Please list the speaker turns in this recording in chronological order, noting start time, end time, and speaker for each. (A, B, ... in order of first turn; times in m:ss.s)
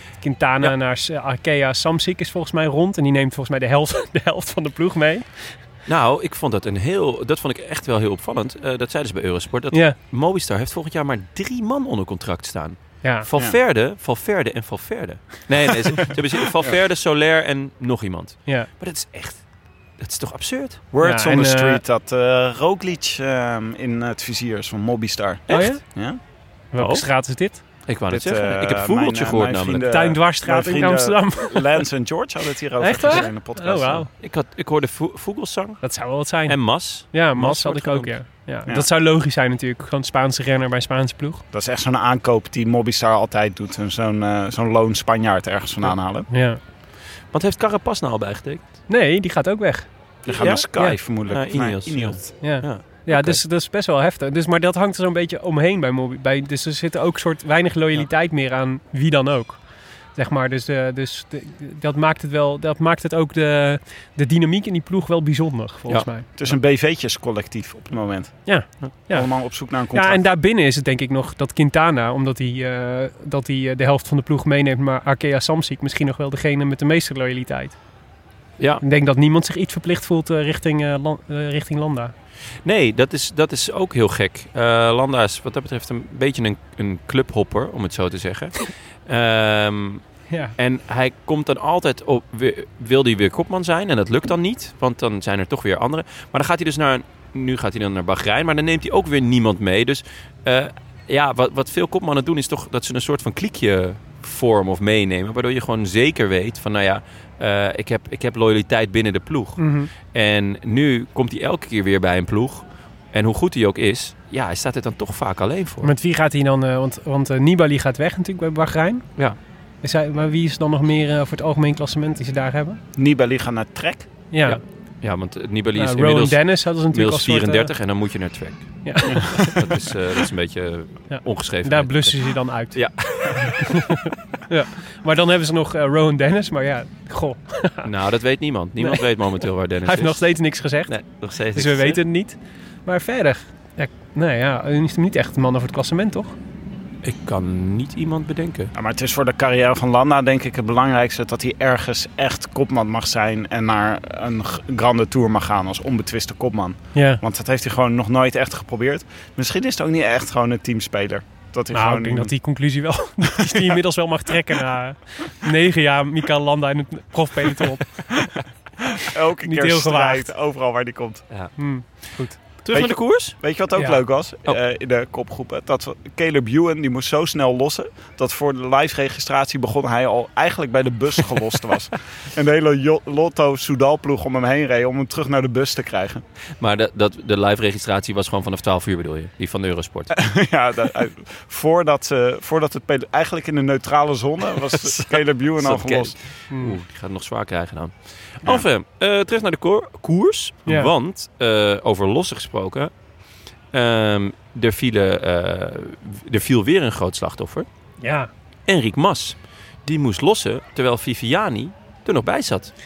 0:00.2-0:05.6 A
0:05.8-0:19.4 B
0:09.7-0:10.0 A
0:20.0-0:20.8 B
0:20.9-0:26.2 C
0:21.0-0:21.8 A
0:25.5-0:25.8 B
0:25.5-0:25.8 A
0:26.7-0:27.6 A
0:26.8-0:27.1 B
0:27.8-0:29.9 B
0:28.1-0:34.1 C
0:29.9-0:31.8 A
0:32.8-0:34.1 A
0:34.2-0:38.2 B
0:35.8-0:41.4 A
0:41.5-0:46.3 C
0:46.3-0:46.6 A
0:47.3-0:48.7 B
0:48.9-0:49.9 A
0:50.2-0:52.3 C
0:50.4-0:53.4 B
0:52.4-1:06.3 A
1:06.4-1:08.5 C
1:08.4-1:09.3 A
1:09.1-1:10.2 C
1:09.9-1:17.8 A
1:18.8-1:22.1 A
1:22.6-1:30.0 B
1:30.3-1:30.5 A
1:30.6-1:55.9 B
1:49.6-1:49.9 A
1:55.8-1:59.0 A
1:59.8-2:02.8 A
2:03.0-2:04.1 C
2:04.3-2:04.6 A
2:04.4-2:13.7 B
2:05.8-2:07.7 A
2:08.8-2:09.6 A
2:09.2-2:09.6 C
2:11.1-2:12.8 A
2:13.3-2:17.9 A
2:17.8-2:20.3 B
2:19.8-2:20.9 A
2:20.9-2:22.0 B
2:21.5-2:26.4 A
2:27.0-2:28.7 B
2:28.7-2:42.3 C
2:36.9-2:37.2 A
2:41.7-2:48.2 A
2:43.4-2:43.7 C
2:48.8-2:51.2 C
2:49.4-2:50.3 A
2:51.6-2:52.4 A
2:52.6-2:53.4 B
2:52.7-3:06.2 C
2:53.8-2:54.0 A
3:06.6-3:10.2 B
3:10.1-3:16.1 C
3:14.8-3:22.9 B
3:16.5-3:16.8 A
3:23.7-3:27.7 B
3:28.0-3:28.3 A
3:28.7-3:32.7 B